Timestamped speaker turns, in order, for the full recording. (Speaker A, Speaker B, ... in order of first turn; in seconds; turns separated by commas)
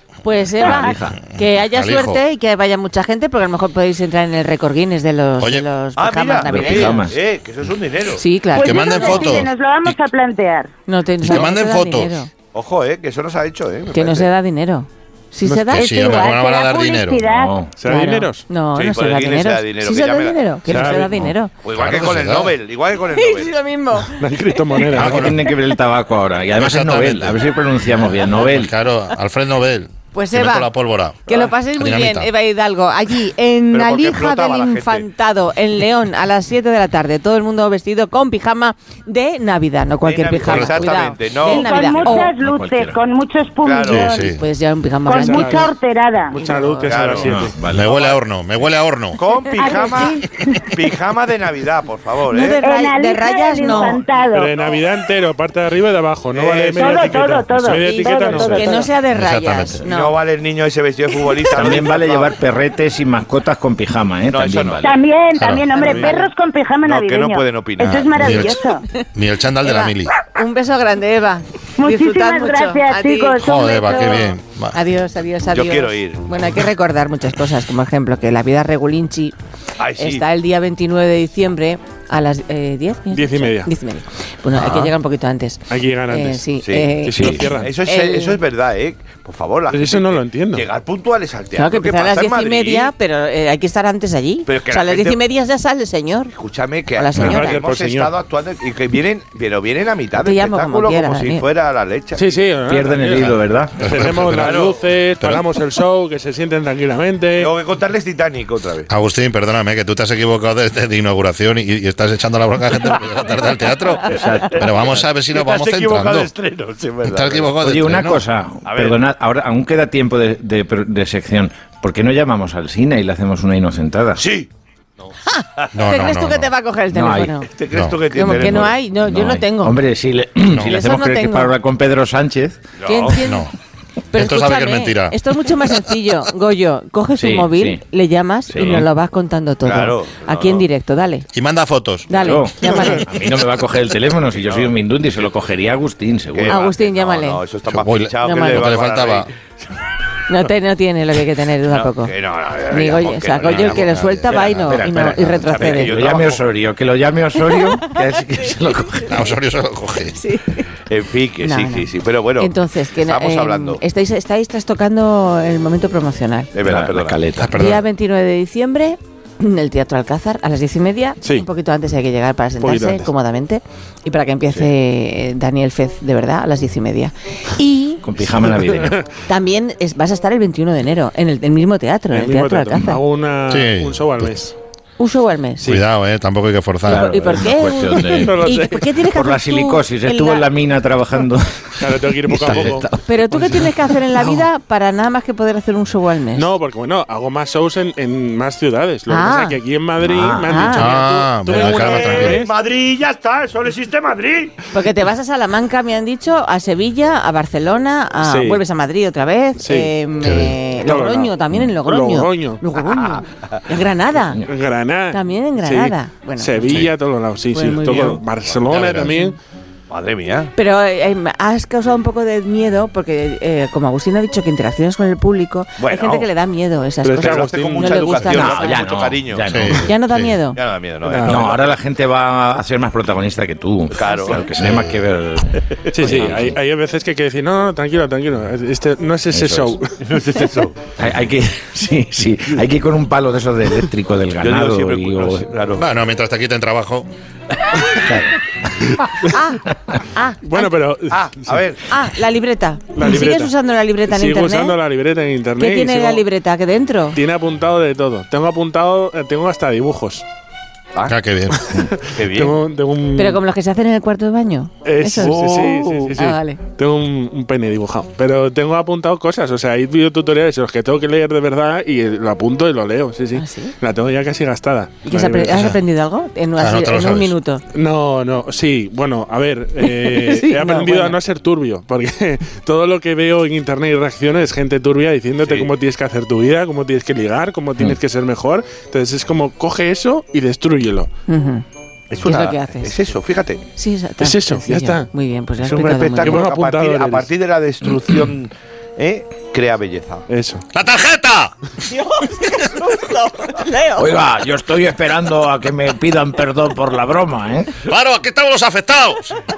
Speaker A: 0.2-7.0, Speaker B: 0.6-1.2, Speaker C: 0.9-2.2, Speaker C: 5.4-5.7, Speaker D: 6.0-8.3, Speaker B: 6.5-7.2, Speaker A: 8.2-9.4, Speaker E: 8.5-10.7, Speaker C: 8.6-10.0, Speaker A: 10.9-12.3, Speaker C: 11.2-12.2, Speaker D: 12.5-14.3, Speaker A: 13.9-15.9, Speaker F: 15.4-16.0, Speaker C: 15.8-17.3, Speaker E: 15.8-17.5, Speaker B: 17.3-17.7, Speaker F: 17.8-18.4, Speaker A: 17.9-21.5, Speaker D: 18.7-20.5, Speaker F: 20.7-21.2, Speaker D: 21.6-23.6, Speaker C: 21.7-22.6, Speaker A: 23.1-24.8, Speaker F: 24.2-25.4, Speaker B: 24.9-28.7, Speaker C: 25.0-25.4, Speaker C: 26.6-27.4, Speaker C: 28.3-32.3, Speaker A: 30.1-30.7, Speaker A: 31.3-42.3, Speaker D: 33.7-35.1, Speaker D: 40.0-42.1, Speaker C: 40.4-41.0, Speaker E: 41.4-44.4, Speaker B: 42.2-43.0, Speaker D: 43.6-44.1, Speaker C: 43.9-44.4, Speaker A: 44.4-45.7, Speaker E: 45.0-46.4, Speaker F: 45.2-45.7, Speaker F: 46.3-47.6, Speaker A: 46.4-47.0, Speaker D: 46.8-48.2, Speaker B: 47.3-47.9, Speaker C: 47.7-49.2, Speaker D: 49.2-52.6, Speaker E: 49.5-50.7, Speaker A: 49.6-50.2, Speaker A: 52.3-54.0, Speaker E: 52.6-54.6, Speaker F: 54.3-58.9, Speaker D: 56.3-57.1, Speaker E: 56.8-58.9, Speaker A: 57.7-60.2, Speaker C: 59.1-59.8, Speaker D: 59.8-62.4, Speaker B: 61.5-64.9, Speaker D: 64.3-64.9, Speaker E: 64.8-68.8, Speaker C: 65.4-65.7, Speaker D: 65.7-66.2, Speaker A: 65.8-66.3, Speaker D: 66.8-68.5, Speaker C: 67.8-68.6, Speaker C: 69.1-70.2, Speaker A: 69.6-79.3, Speaker E: 71.8-74.4, Speaker C: 73.4-74.8, Speaker D: 75.5-76.3, Speaker D: 79.8-80.2, Speaker A: 80.0-88.4, Speaker F: 83.1-83.7, Speaker D: 84.5-84.9, Speaker F: 85.7-86.5, Speaker D: 86.6-92.9, Speaker F: 87.0-87.7, Speaker B: 87.2-87.5, Speaker F: 89.7-90.7, Speaker A: 91.6-96.3, Speaker D: 94.5-95.2, Speaker D: 96.3-102.4, Speaker A: 97.0-97.6, Speaker F: 97.2-98.2, Speaker A: 100.2-101.5, Speaker F: 102.2-107.5, Speaker B: 102.7-104.2, Speaker C: 103.8-104.5, Speaker D: 104.4-104.8, Speaker D: 107.4-108.9, Speaker C: 108.9-116.3, Speaker B: 114.1-114.7, Speaker D: 114.2-117.6, Speaker C: 117.0-118.2, Speaker B: 117.6-124.3, Speaker D: 118.7-119.0, Speaker D: 124.2-124.5, Speaker A: 125.3-127.5, Speaker C: 125.7-126.5, Speaker B: 126.9-127.4, Speaker D: 127.5-128.8, Speaker C: 127.7-128.0, Speaker A: 128.1-129.8, Speaker B: 128.3-132.6, Speaker C: 130.5-130.8, Speaker A: 130.6-131.5, Speaker D: 132.8-133.2, Speaker A: 132.8-133.5, Speaker C: 133.2-133.5, Speaker A: 134.1-141.3, Speaker C: 134.1-135.2, Speaker B: 137.2-137.8, Speaker B: 138.5-138.9, Speaker D: 139.6-140.7, Speaker C: 141.3-142.1, Speaker A: 142.1-143.1, Speaker B: 142.1-146.6, Speaker D: 144.3-144.8, Speaker D: 146.3-149.4, Speaker A: 146.5-147.4, Speaker C: 147.7-149.3, Speaker A: 148.2-148.8, Speaker A: 150.3-152.1, Speaker D: 151.7-154.4, Speaker A: 152.7-156.0, Speaker B: 153.4-159.2, Speaker D: 155.5-156.5, Speaker A: 157.4-159.2, Speaker C: 159.1-160.2, Speaker A: 160.1-160.7, Speaker D: 160.9-163.8, Speaker A: 161.4-166.5, Speaker D: 166.5-167.2, Speaker B: 166.6-167.6, Speaker C: 167.4-167.8, Speaker A: 167.5-178.5, Speaker F: 171.2-171.5, Speaker F: 172.6-173.1, Speaker B: 178.0-179.0, Speaker F: 178.7-179.1, Speaker A: 179.3-183.0, Speaker F: 182.1-184.6, Speaker C: 183.5-184.4, Speaker A: 185.0-185.7, Speaker C: 185.7-187.2, Speaker B: 186.9-188.5, Speaker A: 186.9-190.5, Speaker F: 188.1-188.9, Speaker B: 189.0-193.4, Speaker F: 191.8-194.4, Speaker A: 193.0-196.5, Speaker F: 196.3-202.5, Speaker A: 199.1-199.6, Speaker B: 200.0-200.8, Speaker A: 200.5-200.9, Speaker C: 200.8-202.4, Speaker D: 201.5-204.5, Speaker A: 204.7-214.5, Speaker F: 208.2-208.6, Speaker F: 209.6-209.9, Speaker C: 210.2-210.6, Speaker F: 210.8-212.6, Speaker D: 212.8-213.2, Speaker F: 214.5-219.4, Speaker A: 215.1-216.9, Speaker A: 217.5-218.2, Speaker A: 219.0-219.4, Speaker D: 219.9-220.5, Speaker A: 220.6-228.8, Speaker D: 225.8-226.3, Speaker F: 227.0-228.2, Speaker D: 227.2-229.5, Speaker B: 228.2-229.9, Speaker C: 229.5-230.4, Speaker A: 229.9-230.6, Speaker D: 230.5-231.7, Speaker F: 231.1-231.5, Speaker B: 231.3-236.6, Speaker D: 233.9-235.0, Speaker D: 235.7-236.4, Speaker F: 235.9-240.0, Speaker B: 239.3-239.8, Speaker D: 240.0-240.9, Speaker B: 241.0-245.5, Speaker D: 244.4-245.9, Speaker C: 245.8-247.1, Speaker B: 247.8-249.3, Speaker A: 249.2-250.7, Speaker F: 250.4-251.6, Speaker D: 251.1-251.8, Speaker A: 251.9-254.8, Speaker F: 252.9-253.5, Speaker F: 254.1-256.2, Speaker A: 255.6-257.2, Speaker F: 257.1-260.2, Speaker C: 261.1-261.6, Speaker F: 261.7-263.4, Speaker D: 262.1-262.6, Speaker A: 263.2-265.4, Speaker F: 264.9-275.7, Speaker D: 265.2-266.2, Speaker A: 266.2-266.6, Speaker A: 273.4-273.8, Speaker A: 275.1-277.6, Speaker C: 276.6-277.4, Speaker F: 277.7-291.1, Speaker A: 279.8-281.2, Speaker D: 285.4-285.7, Speaker A: 291.3-291.6, Speaker D: 292.1-293.6, Speaker A: 292.2-293.1, Speaker A: 293.8-296.4, Speaker F: 294.2-295.1, Speaker D: 295.6-300.3, Speaker F: 296.2-297.3, Speaker F: 300.3-300.7, Speaker C: 300.7-301.7, Speaker A: 302.1-304.1, Speaker B: 304.0-307.8, Speaker C: 307.9-309.4